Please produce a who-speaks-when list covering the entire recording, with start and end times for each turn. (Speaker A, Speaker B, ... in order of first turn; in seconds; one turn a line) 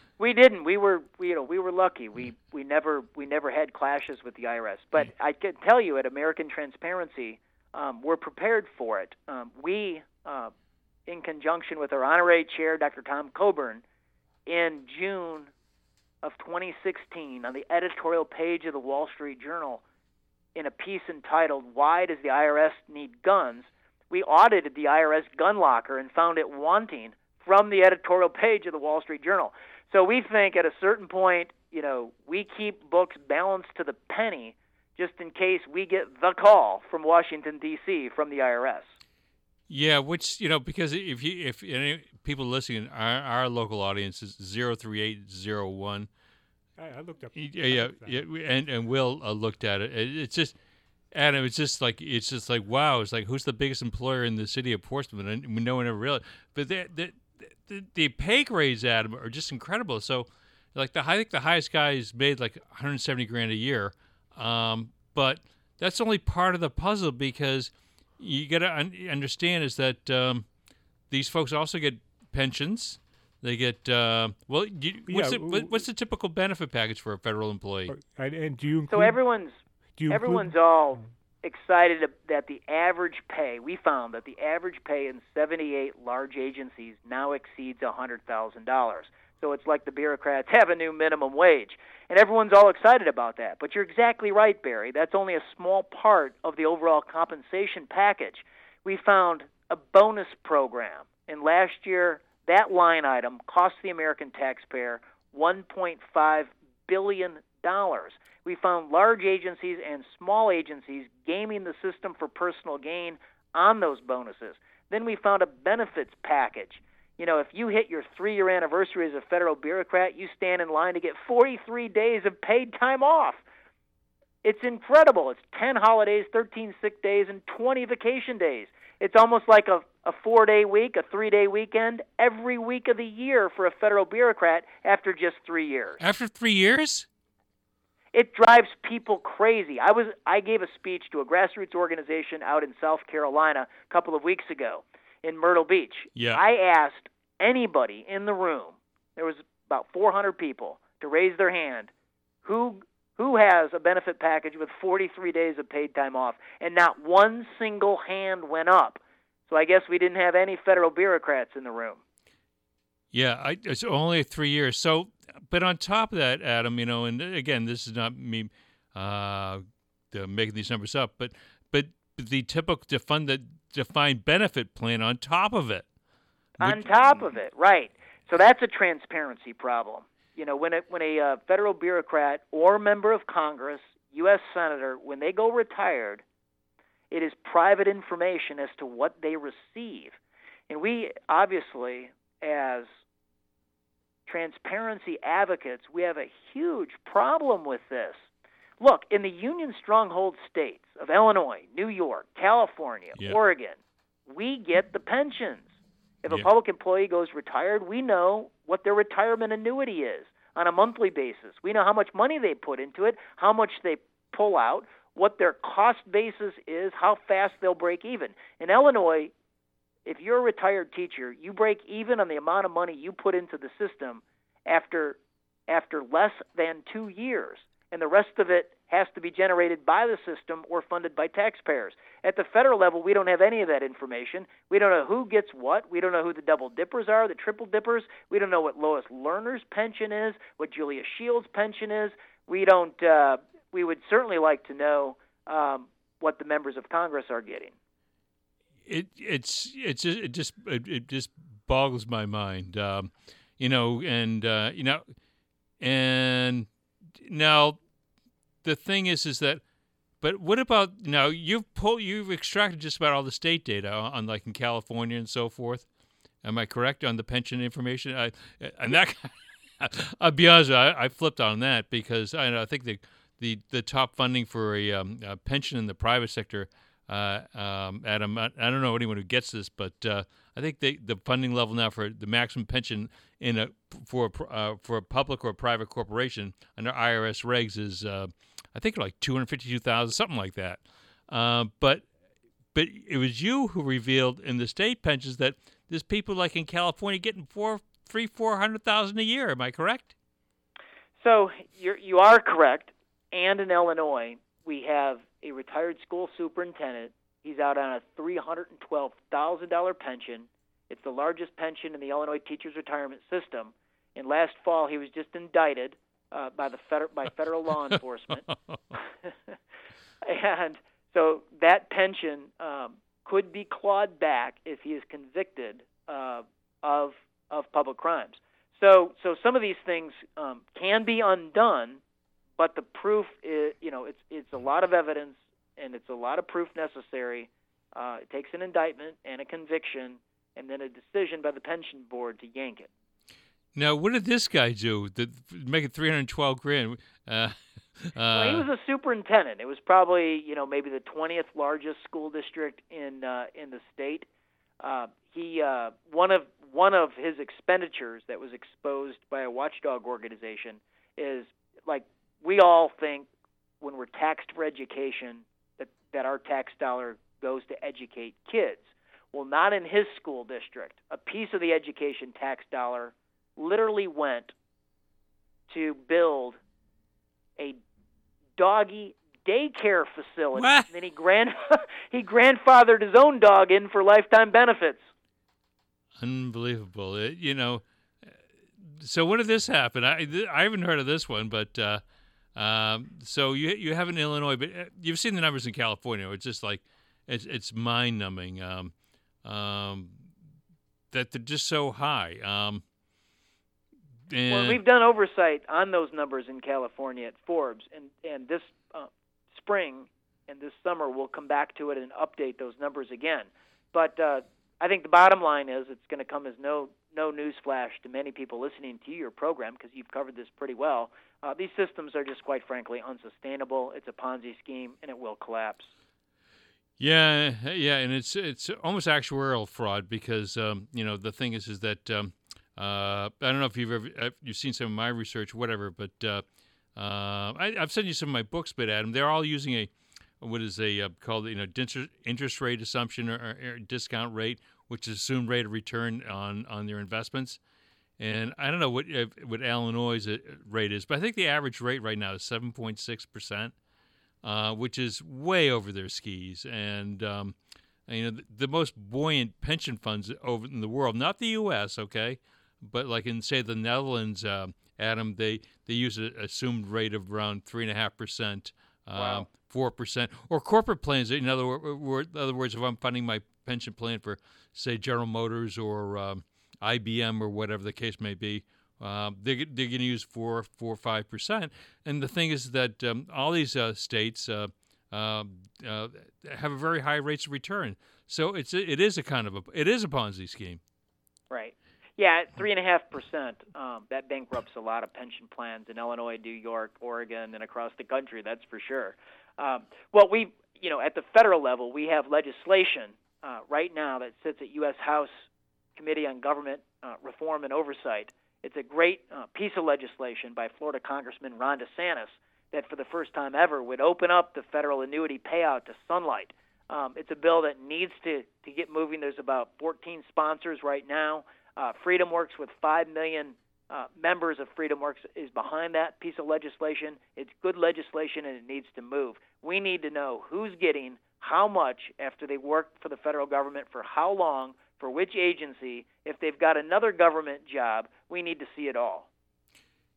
Speaker A: 0.2-10.5
Speaker A: 11.1-13.8
Speaker A: 14.5-15.5
Speaker A: 16.2-19.8
Speaker A: 20.6-39.0
Speaker B: 39.7-46.1
Speaker C: 46.8-48.2
Speaker B: 47.4-50.5
Speaker B: 51.1-70.5
Speaker B: 71.1-77.9
Speaker C: 75.1-75.8
Speaker C: 77.9-79.2
Speaker A: 78.9-79.6
Speaker C: 80.0-81.1
Speaker A: 80.1-123.4
Speaker A: 124.4-136.0
Speaker B: 136.0-137.1
Speaker A: 138.1-151.9
Speaker B: 146.2-146.4
Speaker A: 152.4-162.0
Speaker B: 163.1-175.9
Speaker B: 176.6-177.2
Speaker A: 176.6-186.2
Speaker A: 187.1-190.2
Speaker A: 190.7-192.9
Speaker A: 194.3-198.3
Speaker A: 198.8-205.7
Speaker A: 206.2-219.3
Speaker A: 220.1-247.7
Speaker B: 248.9-255.0
Speaker B: 255.8-257.8
Speaker B: 258.6-259.6
Speaker B: 260.2-265.9
Speaker B: 266.4-292.1
Speaker B: 292.7-300.1
Speaker A: 301.2-318.5
Speaker A: 320.2-332.0
Speaker A: 332.6-342.9
Speaker B: 343.7-348.7
Speaker A: 348.3-354.3
Speaker A: 354.8-363.3
Speaker A: 363.8-374.5
Speaker A: 375.7-376.6
Speaker A: 378.6-385.0
Speaker B: 380.5-380.9
Speaker B: 386.2-392.0
Speaker B: 392.6-398.9
Speaker B: 399.4-400.3
Speaker B: 401.1-402.8
Speaker B: 404.3-404.8
Speaker A: 404.5-425.9
Speaker B: 427.0-436.4
Speaker B: 437.0-447.6
Speaker B: 448.2-453.7
Speaker B: 454.4-490.8
Speaker A: 469.2-469.5
Speaker A: 491.5-505.4
Speaker A: 506.0-539.3